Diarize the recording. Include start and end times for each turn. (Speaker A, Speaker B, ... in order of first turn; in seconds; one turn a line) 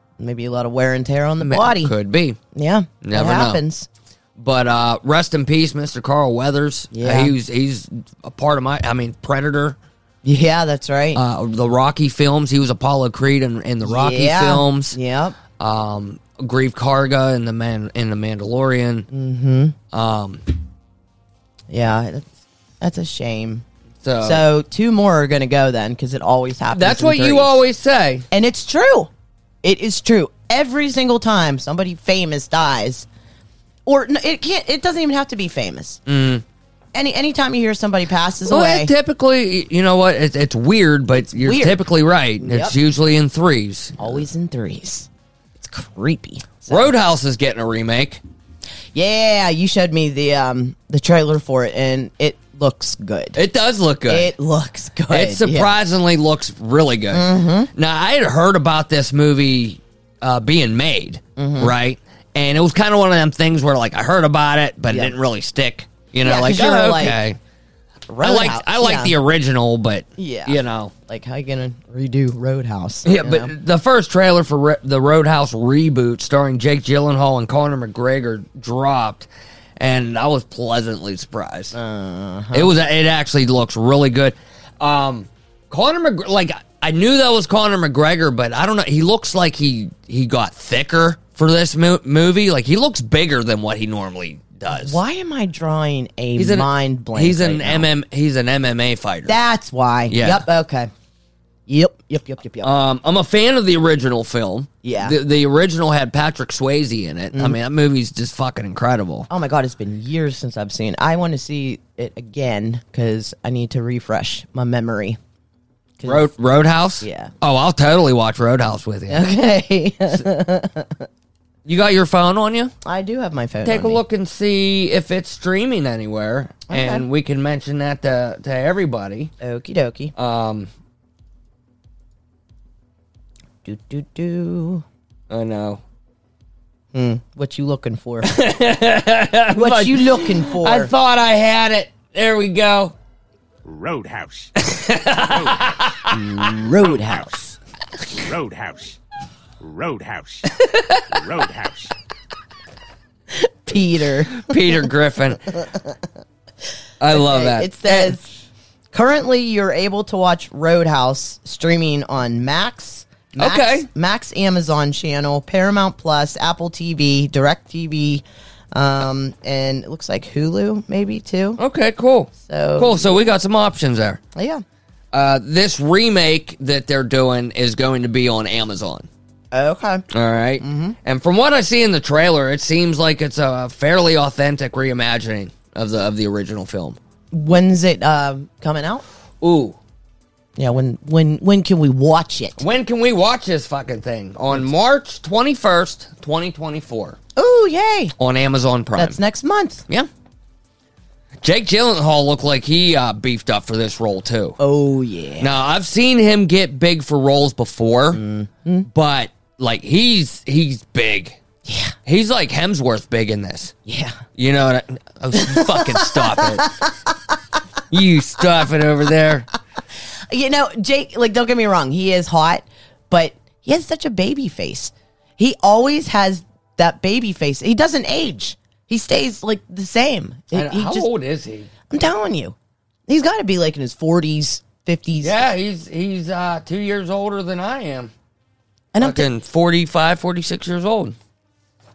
Speaker A: 0.2-1.9
Speaker B: 1.4-2.4
Speaker A: 2.5-3.9
Speaker B: 3.0-3.6
Speaker B: 4.4-9.8
Speaker A: 6.9-7.3
Speaker A: 10.2-11.2
Speaker B: 11.1-15.0
Speaker A: 13.8-15.4
Speaker B: 15.6-19.1
Speaker A: 19.1-19.8
Speaker B: 19.9-20.4
Speaker A: 21.7-23.6
Speaker B: 24.0-24.4
Speaker A: 24.2-27.6
Speaker B: 26.7-28.3
Speaker A: 28.3-29.1
Speaker A: 29.6-33.1
Speaker A: 33.9-36.0
Speaker B: 36.1-36.4
Speaker A: 36.9-38.9
Speaker B: 38.5-44.2
Speaker A: 41.3-41.8
Speaker A: 42.4-42.8
Speaker A: 44.0-46.9
Speaker B: 46.7-48.2
Speaker A: 48.9-53.4
Speaker B: 53.4-54.3
Speaker A: 54.1-55.7
Speaker B: 55.1-67.4
Speaker A: 57.1-57.7
Speaker A: 61.4-61.7
Speaker A: 66.2-67.2
Speaker A: 68.1-69.1
Speaker B: 68.2-70.9
Speaker A: 70.2-73.5
Speaker B: 73.0-81.8
Speaker A: 81.7-82.7
Speaker B: 82.5-95.0
Speaker A: 94.7-97.9
Speaker B: 96.4-99.4
Speaker A: 99.3-100.9
Speaker B: 100.1-100.4
Speaker A: 101.7-102.7
Speaker B: 102.6-109.3
Speaker A: 104.8-105.2
Speaker A: 109.3-115.2
Speaker A: 116.0-116.3
Speaker B: 116.0-119.2
Speaker A: 117.0-117.3
Speaker A: 119.1-121.1
Speaker B: 121.7-122.7
Speaker A: 122.8-124.0
Speaker B: 123.6-129.3
Speaker A: 126.7-127.0
Speaker A: 129.4-130.1
Speaker B: 130.2-130.7
Speaker A: 133.6-134.8
Speaker B: 135.3-135.8
Speaker A: 136.9-138.4
Speaker B: 138.2-142.9
Speaker A: 139.5-140.9
Speaker C: 143.6-144.6
Speaker B: 144.6-146.5
Speaker C: 145.1-145.7
Speaker A: 146.1-147.3
Speaker C: 146.8-147.6
Speaker C: 148.1-149.0
Speaker C: 149.6-151.9
Speaker B: 150.5-151.0
Speaker A: 153.3-154.8
Speaker B: 154.3-155.4
Speaker A: 155.6-155.9
Speaker B: 157.0-158.2
Speaker A: 157.1-158.3
Speaker A: 158.9-171.6
Speaker B: 163.4-163.9
Speaker B: 171.6-174.2
Speaker A: 172.4-173.3
Speaker A: 174.3-174.6
Speaker B: 175.1-179.1
Speaker A: 179.5-180.0
Speaker B: 180.1-187.0
Speaker A: 180.6-180.9
Speaker A: 187.3-189.0
Speaker B: 189.4-189.8
Speaker A: 190.6-192.6
Speaker B: 192.6-197.2
Speaker A: 197.4-198.1
Speaker B: 198.2-199.2
Speaker A: 198.9-199.8
Speaker B: 201.4-204.6
Speaker A: 204.6-205.5
Speaker B: 205.4-208.2
Speaker A: 208.1-208.9
Speaker B: 208.9-211.4
Speaker A: 211.7-211.9
Speaker B: 212.1-213.8
Speaker A: 213.9-214.2
Speaker B: 214.3-216.8
Speaker A: 215.3-216.9
Speaker B: 217.9-219.5
Speaker A: 220.3-231.1
Speaker B: 230.5-231.7
Speaker A: 231.9-232.6
Speaker A: 233.1-235.4
Speaker B: 235.2-238.1
Speaker A: 238.9-239.3
Speaker B: 239.0-241.2